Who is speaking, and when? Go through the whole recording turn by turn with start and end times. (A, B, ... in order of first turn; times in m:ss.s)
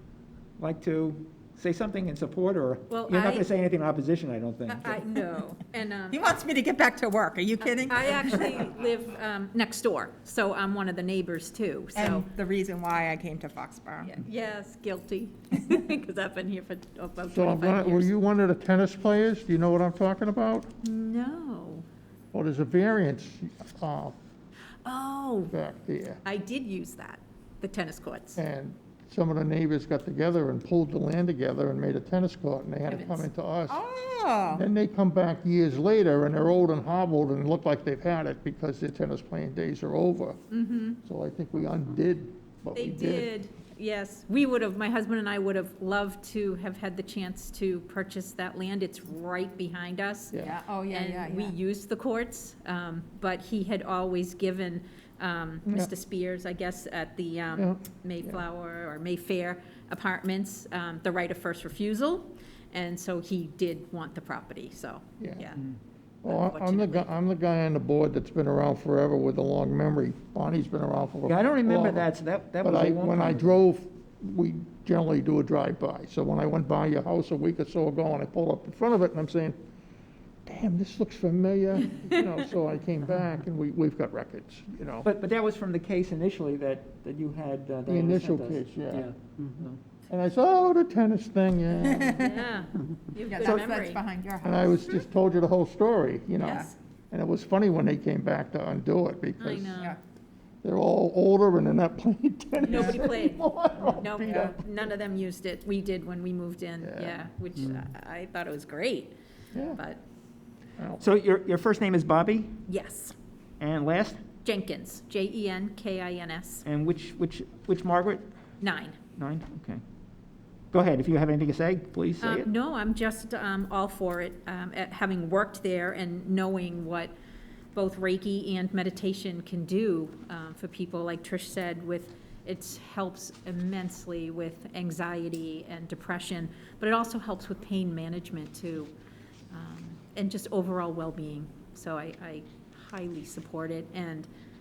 0:00.6-0:05.1 A
0:02.9-0:03.5 B
0:04.7-0:06.2 B
0:06.1-0:08.7 C
0:07.8-0:12.2 B
0:11.9-0:14.1 C
0:14.0-0:18.1 B
0:17.3-0:20.7 D
0:20.8-0:21.8 B
0:22.3-0:24.1 D
0:24.8-0:25.5 B
0:25.5-0:26.2 D
0:26.2-0:28.4 B
0:28.4-0:33.8 D
0:32.8-0:33.3 B
0:33.7-0:34.6 C
0:34.5-0:40.4 D
0:40.5-0:41.0 B
0:41.0-0:43.3 D
0:42.7-1:05.6 B
0:50.3-0:51.5 C
0:57.6-0:58.3 D
1:05.2-1:05.5 D
1:06.2-1:12.1 D
1:06.2-1:07.1 B
1:11.2-1:13.6 A
1:12.6-1:19.6 D
1:20.4-1:25.1 D
1:25.0-1:29.8 A
1:27.9-1:29.1 D
1:30.1-1:32.3 D
1:31.9-1:32.2 C
1:32.2-1:34.0 B
1:33.3-1:34.9 C
1:34.4-1:39.8 D
1:36.4-1:36.7 B
1:39.4-1:40.0 B
1:40.6-1:44.6 D
1:42.6-1:49.2 B
1:46.8-1:47.2 D
1:49.5-1:49.8 D
1:49.7-1:50.0 B
1:51.0-1:52.6 A
1:52.7-1:53.1 B
1:53.6-1:54.2 A
1:54.4-1:56.6 B
1:56.6-1:58.2 A
1:58.6-1:59.0 B
1:59.2-1:59.8 A
2:00.7-2:02.5 A
2:02.2-2:07.1 B
2:07.7-2:18.9 B
2:19.5-2:24.3 B